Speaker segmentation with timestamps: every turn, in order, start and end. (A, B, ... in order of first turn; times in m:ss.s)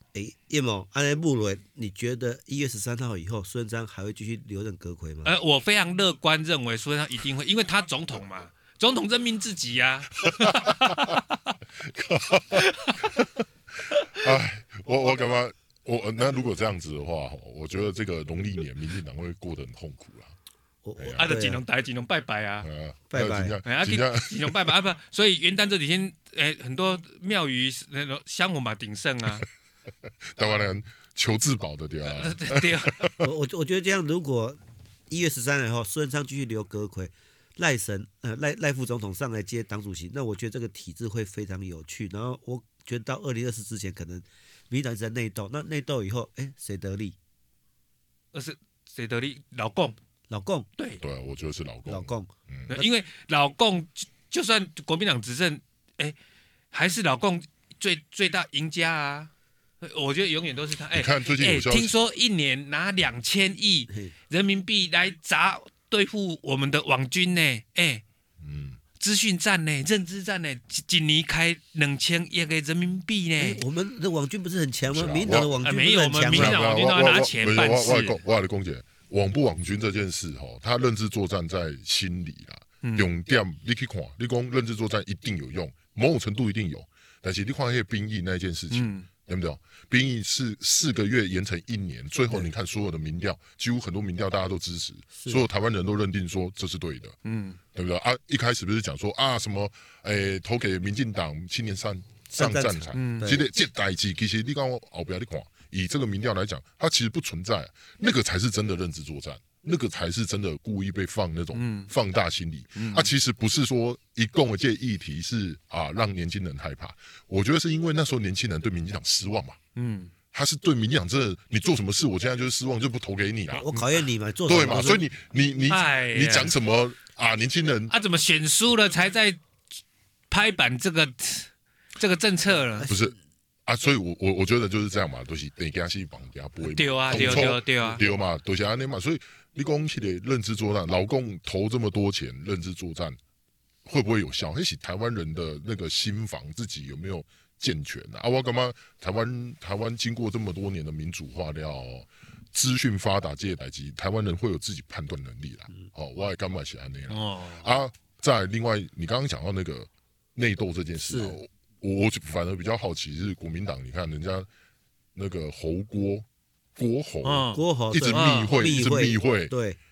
0:00.1-0:05.3 A
0:05.2-0:11.5 B
0:10.4-0:11.2 C
0:11.8-0:20.3 C
0:12.5-0:13.0 B
0:20.8-0:21.6 A
0:21.0-0:21.3 C
0:21.2-0:22.7 B
0:22.6-0:24.7 C
0:23.1-0:23.6 A
0:23.6-0:29.5 B
0:30.3-0:33.2 C
0:32.0-0:33.1 B
0:33.2-0:47.2 A
0:48.3-0:50.0 B
0:50.3-0:50.7 A
0:51.0-0:52.7 C
0:51.9-0:52.3 A
0:52.7-0:56.2 B
0:56.7-0:59.3 B
0:59.8-1:08.0 B
1:00.9-1:01.9 C
1:08.4-1:08.8 C
1:09.0-1:13.6 B
1:13.4-1:16.6 A
1:14.9-1:15.5 C
1:15.6-1:18.2 B
1:16.3-1:37.2 C
1:22.8-1:23.1 B
1:28.7-1:29.1 B
1:35.2-1:35.4 A
1:37.2-1:37.6 B
1:37.7-1:59.6 C
1:42.3-1:43.5 A
1:42.9-1:43.4 B
1:51.5-1:51.9 B
1:52.8-1:53.1 B
1:59.8-2:00.1 B
2:00.3-2:03.7 C
2:03.5-2:05.0 A
2:04.5-2:07.9 C
2:05.7-2:06.6 B
2:07.9-2:09.4 B
2:10.3-2:12.9 B
2:12.8-2:13.2 A
2:12.9-2:13.2 C
2:13.7-2:23.2 C
2:16.7-2:18.0 B
2:17.1-2:17.5 A
2:23.8-2:44.5 C
2:37.1-2:37.7 B
2:41.1-2:41.4 A
2:45.2-2:46.2 C
2:46.8-2:49.5 C
2:47.2-2:48.5 B
2:47.5-2:49.8 A